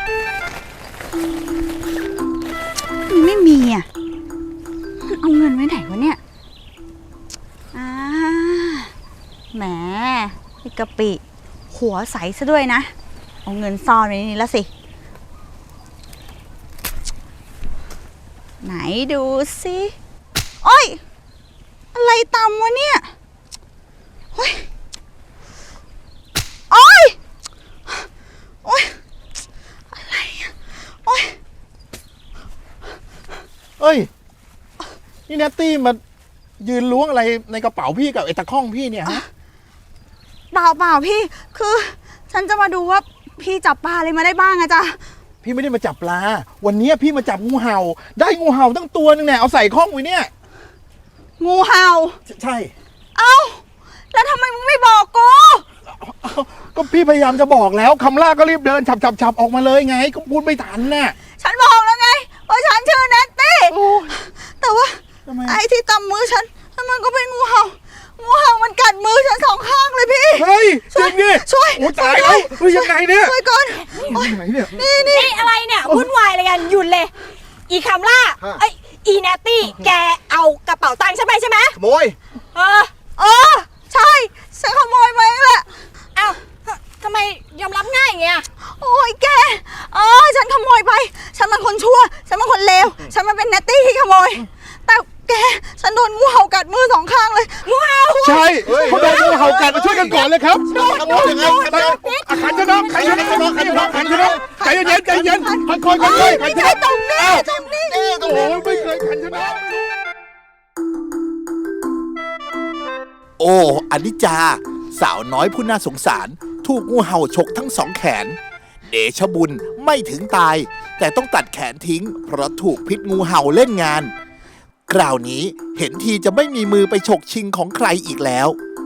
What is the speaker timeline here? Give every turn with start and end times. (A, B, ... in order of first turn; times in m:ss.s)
0:03.1-0:03.8 A
0:05.0-0:06.2 A
0:07.7-0:08.9 A
0:09.5-0:12.9 A
0:13.4-0:14.7 A
0:18.6-0:19.9 A
0:20.6-0:21.0 A
0:21.9-0:23.1 A
0:24.3-0:24.7 A
0:26.7-0:27.2 A
0:28.6-0:29.0 A
0:29.9-0:31.4 A
0:33.8-0:34.1 B
0:35.3-0:36.0 B
0:36.6-0:39.2 B
0:40.5-0:45.0 A
0:45.4-0:50.3 B
0:51.4-0:52.2 A
0:52.3-0:52.7 B
0:53.1-0:55.6 A
0:55.9-1:01.1 B
1:01.4-1:15.4 A
1:03.7-1:04.1 B
1:05.2-1:05.6 B
1:10.4-1:13.4 B
1:13.9-1:14.9 B
1:15.0-1:17.1 C
1:15.8-1:16.1 B
1:17.7-1:21.8 C
1:18.4-1:18.6 D
1:21.7-1:22.2 D
1:22.5-1:22.9 C
1:23.1-1:25.7 A
1:26.2-1:28.5 C
1:28.6-1:48.9 A
1:37.6-1:39.4 C
1:38.2-1:49.8 B
1:38.6-1:40.0 D
1:42.9-1:43.2 C
1:43.6-1:44.2 D
1:46.0-1:46.4 C
1:53.4-2:04.1 E
2:04.9-2:08.6 E